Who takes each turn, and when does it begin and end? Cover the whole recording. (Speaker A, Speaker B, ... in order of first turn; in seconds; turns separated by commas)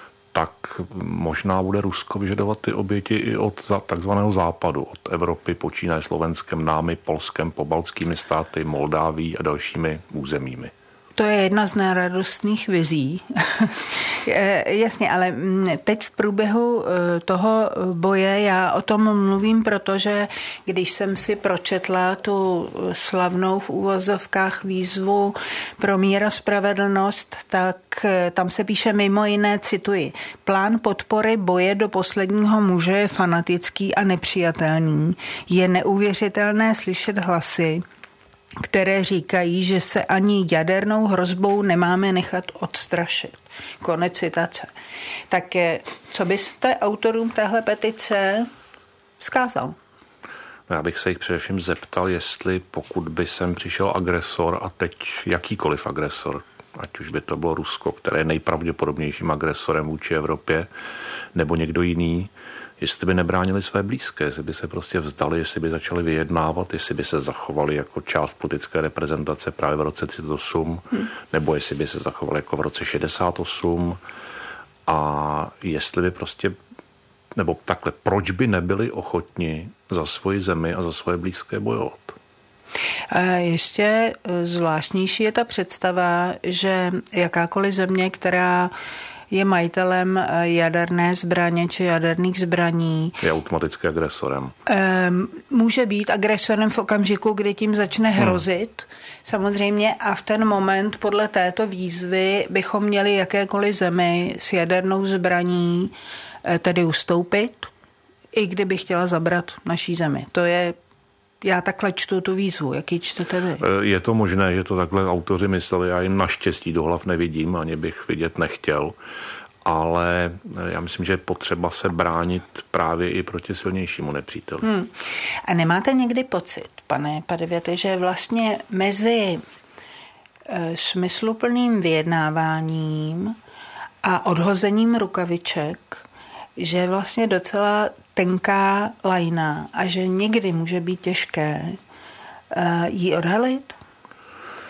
Speaker A: 0.3-10.7, Speaker B: 11.2-37.8, Speaker B: 38.6-44.7, Speaker B: 45.3-48.5, Speaker B: 49.2-49.8, Speaker A: 50.7-60.7, Speaker A: 61.3-74.0, Speaker A: 74.9-76.5, Speaker A: 77.3-82.2, Speaker B: 83.1-88.7, Speaker B: 89.3-93.2, Speaker A: 93.2-94.5, Speaker B: 94.7-107.7, Speaker B: 108.3-110.8, Speaker B: 111.4-113.6, Speaker A: 113.6-119.0, Speaker A: 119.6-124.7, Speaker B: 124.6-124.9, Speaker B: 125.5-129.4, Speaker B: 130.5-133.4, Speaker B: 134.0-136.0, Speaker B: 136.6-141.8, Speaker B: 142.5-143.7